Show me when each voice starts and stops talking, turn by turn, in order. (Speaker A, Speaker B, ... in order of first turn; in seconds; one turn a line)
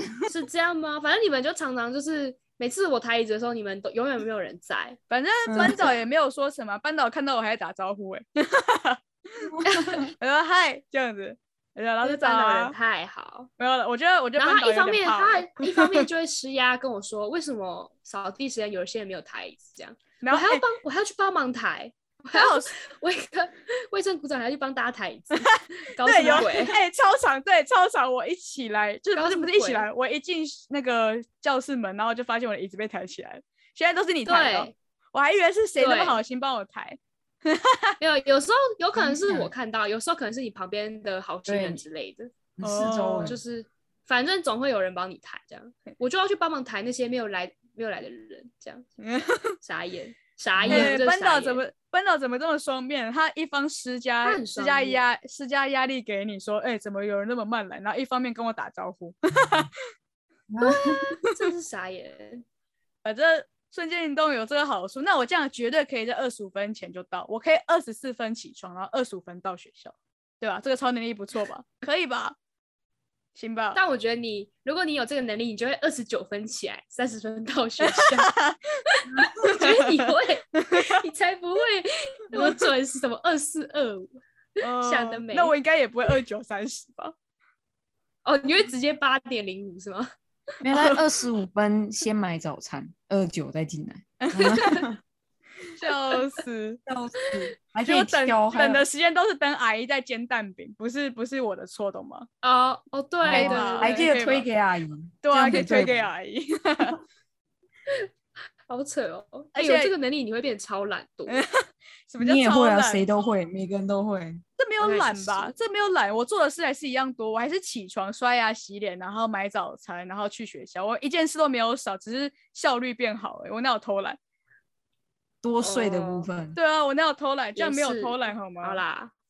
Speaker A: 0.3-5.0
Speaker B: 5.1-9.5
Speaker C: 5.5-5.9
Speaker A: 5.6-6.0
Speaker C: 9.5-10.1
Speaker A: 9.7-10.1
Speaker B: 10.2-12.8
Speaker A: 12.0-13.5
Speaker B: 13.6-16.1
Speaker A: 14.4-26.8
Speaker B: 20.2-20.6
Speaker B: 22.3-22.7
Speaker B: 25.4-38.0
Speaker A: 29.1-29.9
Speaker A: 34.3-34.7
Speaker A: 35.8-36.2
Speaker A: 38.0-42.3
Speaker C: 39.0-39.5
Speaker C: 41.5-41.8
Speaker C: 42.6-43.4
Speaker B: 42.6-43.4
Speaker A: 43.2-48.9
Speaker B: 49.0-49.6
Speaker A: 49.6-51.6
Speaker C: 50.6-51.0
Speaker B: 50.7-59.7
Speaker A: 54.2-55.0
Speaker C: 60.5-61.0
Speaker A: 60.6-62.4
Speaker B: 63.0-72.4
Speaker B: 73.3-73.8
Speaker A: 73.7-78.3
Speaker B: 77.8-78.8
Speaker A: 78.9-84.1
Speaker B: 79.4-81.0
Speaker B: 82.3-82.7
Speaker B: 84.6-87.1
Speaker A: 84.6-85.5
Speaker A: 88.2-90.1
Speaker C: 90.6-95.0
Speaker B: 90.7-91.0
Speaker B: 94.2-94.8
Speaker A: 94.4-94.8
Speaker B: 95.8-96.8
Speaker A: 95.8-96.2
Speaker C: 96.9-98.8
Speaker B: 97.8-102.3
Speaker A: 102.4-104.1
Speaker C: 103.2-106.1
Speaker B: 103.3-104.5
Speaker B: 105.2-107.0
Speaker A: 108.7-111.4
Speaker B: 109.5-109.9
Speaker B: 111.3-113.1
Speaker C: 112.2-114.4
Speaker B: 114.6-124.2
Speaker A: 114.8-115.5
Speaker C: 125.4-126.6
Speaker A: 125.6-126.3
Speaker B: 126.5-128.8
Speaker A: 127.6-129.1